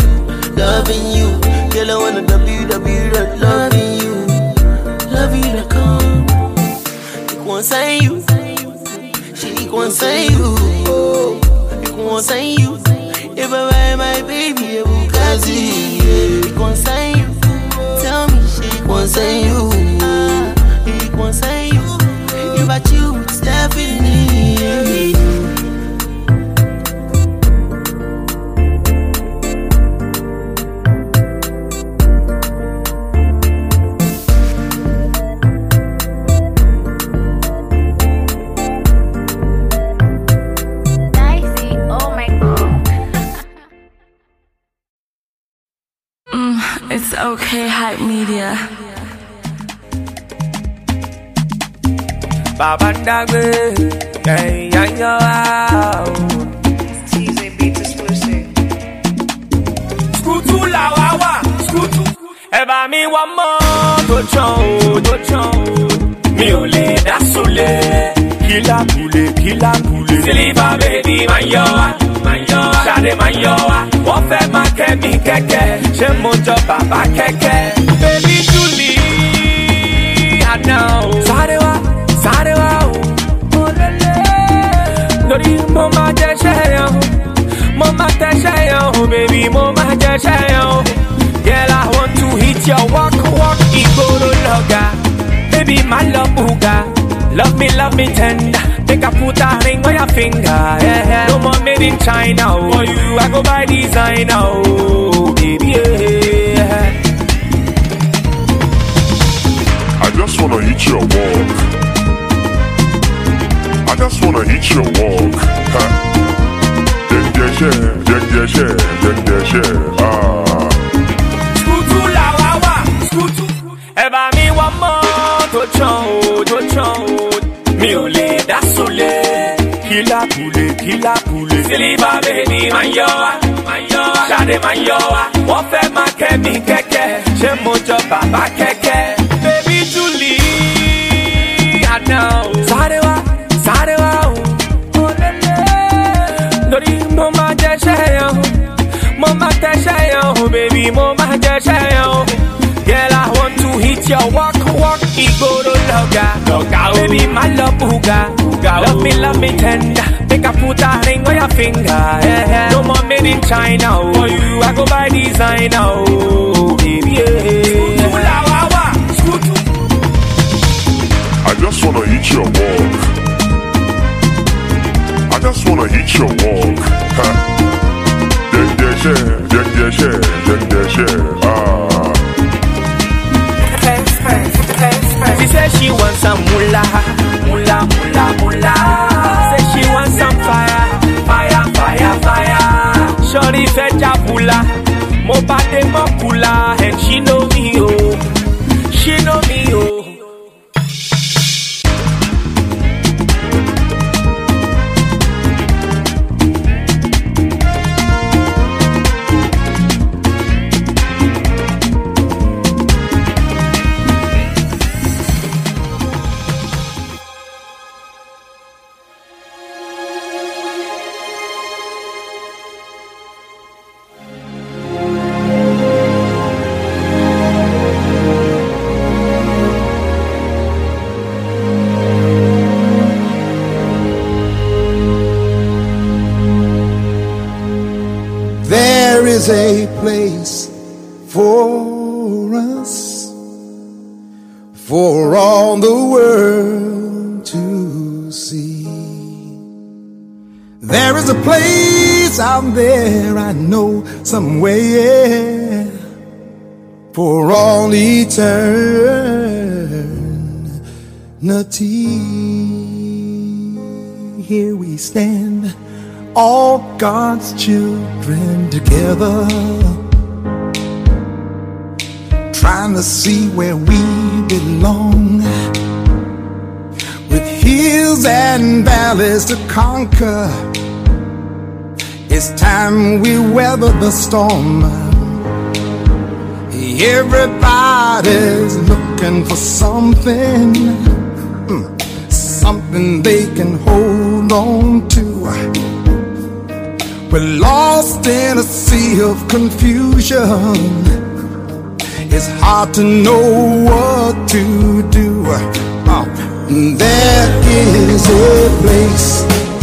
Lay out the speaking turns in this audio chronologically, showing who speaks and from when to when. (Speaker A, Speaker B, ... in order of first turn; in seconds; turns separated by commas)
Speaker A: 0.5-4.5, Speaker A: 5.1-6.4, Speaker A: 7.3-8.4, Speaker A: 9.3-25.2, Speaker B: 41.2-42.6, Speaker C: 46.3-49.2, Speaker D: 52.6-56.5, Speaker B: 56.9-58.5, Speaker D: 60.1-95.0, Speaker D: 95.5-107.0, Speaker E: 110.0-111.6, Speaker E: 113.9-116.0, Speaker E: 117.1-120.8, Speaker D: 121.5-169.6, Speaker E: 171.4-173.1, Speaker E: 175.3-177.4, Speaker E: 178.5-182.2, Speaker D: 183.8-198.3, Speaker B: 184.8-185.2, Speaker D: 198.9-200.3, Speaker F: 238.6-240.7, Speaker F: 241.3-243.3, Speaker F: 244.8-249.4, Speaker F: 250.8-255.9, Speaker F: 257.1-260.7, Speaker F: 261.4-265.8, Speaker F: 266.4-270.0, Speaker F: 272.5-275.5, Speaker F: 277.3-280.7, Speaker F: 282.3-285.4, Speaker F: 286.7-291.1, Speaker F: 291.7-295.7, Speaker F: 297.3-301.2, Speaker F: 302.3-309.5